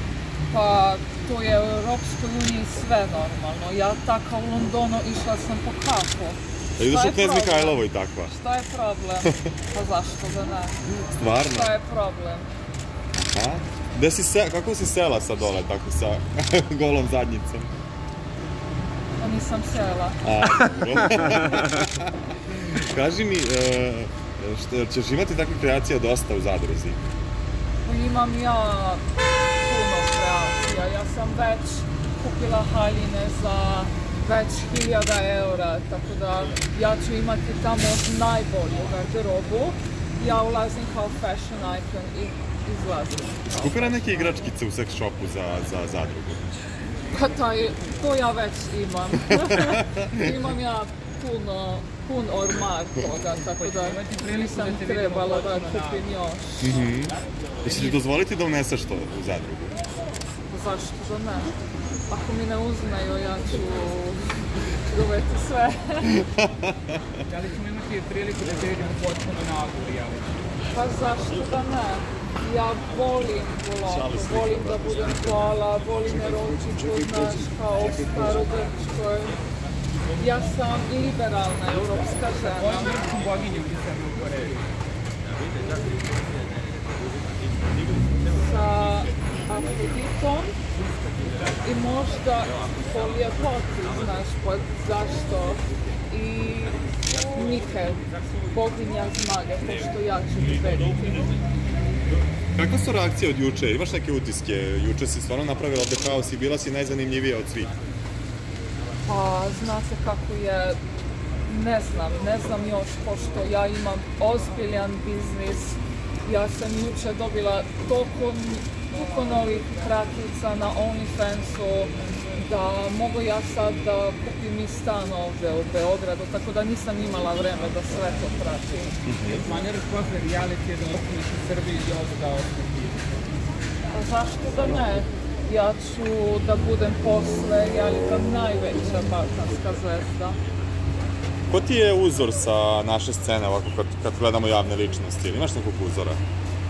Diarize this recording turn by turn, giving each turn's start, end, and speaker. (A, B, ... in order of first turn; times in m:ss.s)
0:00.5-0:10.8 A
0:06.8-0:08.3 B
0:11.2-0:11.7 B
0:11.4-0:12.5 A
0:13.2-0:17.7 B
0:19.2-0:20.2 A
0:20.2-0:27.0 B
0:27.8-0:29.0 A
0:29.6-0:44.3 A
0:43.6-0:46.4 B
0:47.1-0:56.8 A
0:49.3-0:50.2 B
0:53.6-0:56.0 C
0:56.6-0:59.8 B
0:57.7-0:57.9 A
1:00.5-1:01.5 A
1:02.1-1:06.2 A
1:06.1-1:07.2 B
1:07.2-1:10.5 C
1:10.7-1:19.4 A
1:20.2-1:23.1 A
1:22.4-1:24.7 C
1:28.3-1:30.5 A
1:31.6-1:36.8 A
1:37.3-1:41.4 A
1:42.6-1:47.7 B
1:49.0-1:50.8 A
1:51.4-2:09.0 A
2:09.0-2:09.4 B
2:09.3-2:13.1 C
2:13.9-2:20.4 A
2:21.5-2:26.2 B